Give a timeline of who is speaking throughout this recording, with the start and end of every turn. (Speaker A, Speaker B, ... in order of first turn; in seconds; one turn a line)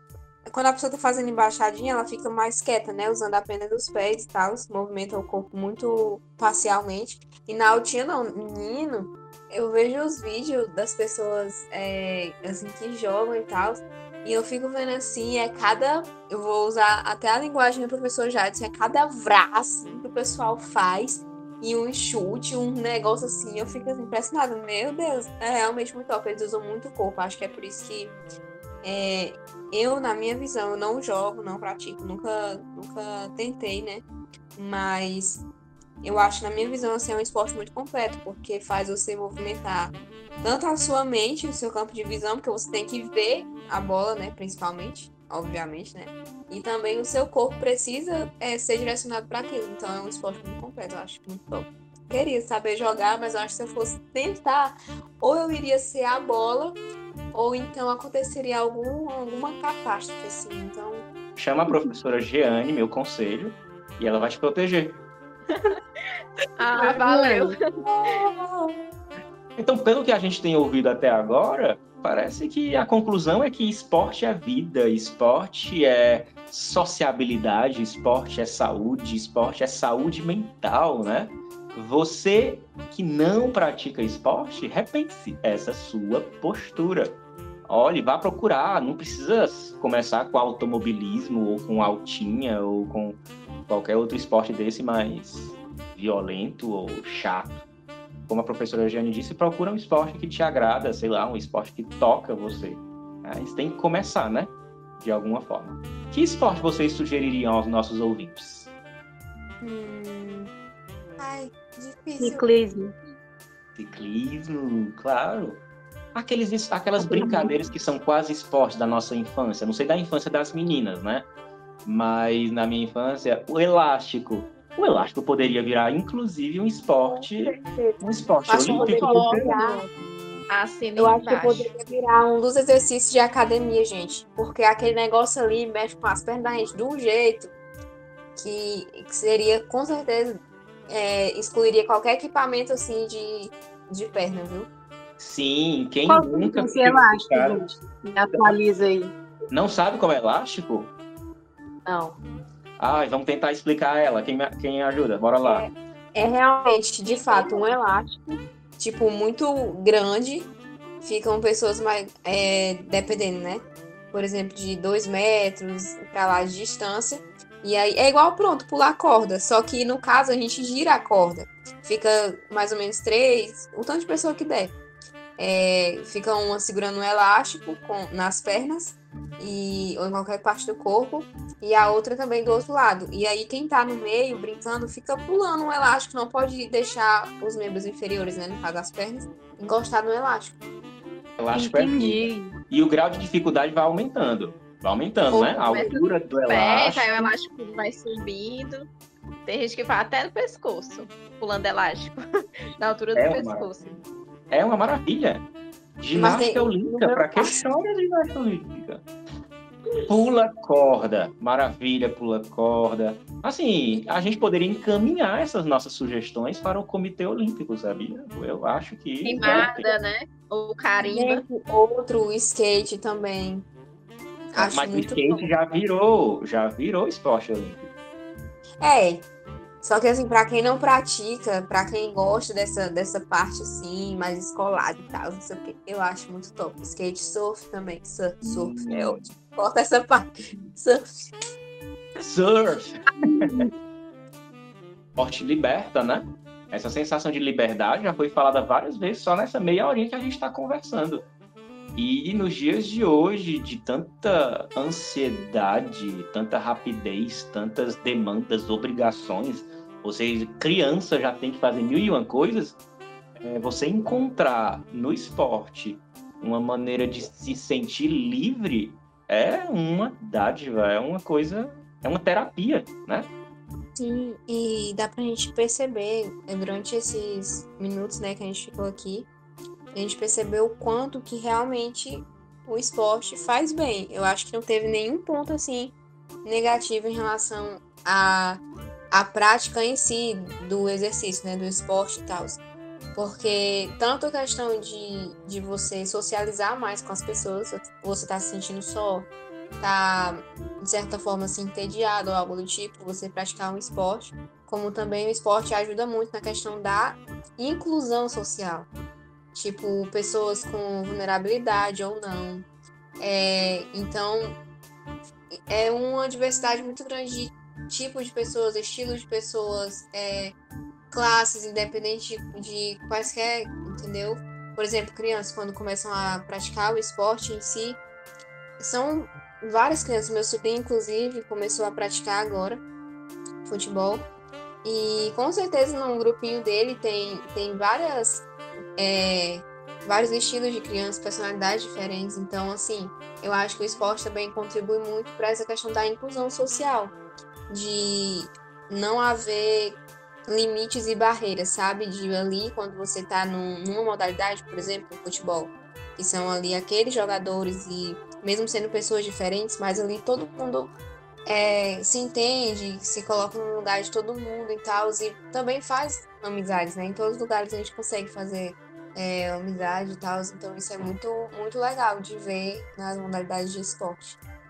Speaker A: 0.5-28.2
Speaker A: 28.8-34.0
Speaker A: 34.5-35.4
Speaker A: 36.0-56.8
Speaker A: 57.3-61.0
Speaker B: 61.4-65.0
Speaker C: 65.5-65.8
Speaker C: 66.6-67.5
Speaker D: 66.7-67.5
Speaker A: 67.9-68.7
Speaker B: 69.6-97.6
Speaker B: 98.3-108.7
Speaker A: 109.6-110.5
Speaker A: 111.2-112.5
Speaker D: 112.2-112.9
Speaker B: 113.8-115.6
Speaker B: 116.1-121.3
Speaker D: 117.1-117.5
Speaker B: 121.8-129.5
Speaker A: 127.1-129.9
Speaker C: 128.5-129.9
Speaker C: 130.5-131.7
Speaker A: 131.0-137.5
Speaker A: 138.3-144.7
Speaker B: 145.2-147.7
Speaker D: 146.1-149.1
Speaker B: 149.5-150.9
Speaker D: 151.9-152.1
Speaker B: 152.8-155.7
Speaker A: 155.4-160.5
Speaker A: 161.0-174.7
Speaker A: 175.4-190.6
Speaker B: 191.4-197.1
Speaker D: 191.5-192.5
Speaker C: 195.3-198.9
Speaker C: 199.4-202.2
Speaker C: 202.8-204.0
Speaker B: 203.1-203.7
Speaker B: 204.5-205.4
Speaker B: 206.0-209.0
Speaker A: 206.1-207.6
Speaker B: 210.1-219.9
Speaker C: 219.2-221.4
Speaker A: 221.0-223.7
Speaker A: 224.5-225.2
Speaker B: 224.6-227.9
Speaker A: 228.8-229.2
Speaker A: 229.8-241.0
Speaker B: 238.4-239.2
Speaker B: 242.2-243.7
Speaker B: 245.2-251.3
Speaker B: 251.9-262.8
Speaker B: 263.4-273.3
Speaker A: 273.9-279.3
Speaker A: 279.9-292.6
Speaker A: 293.1-308.9
Speaker A: 309.5-312.7
Speaker A: 313.2-314.6
Speaker A: 315.6-320.5
Speaker A: 321.1-328.0
Speaker A: 328.8-332.8
Speaker A: 333.6-334.3
Speaker A: 334.8-347.1
Speaker A: 347.7-360.9
Speaker A: 361.4-374.4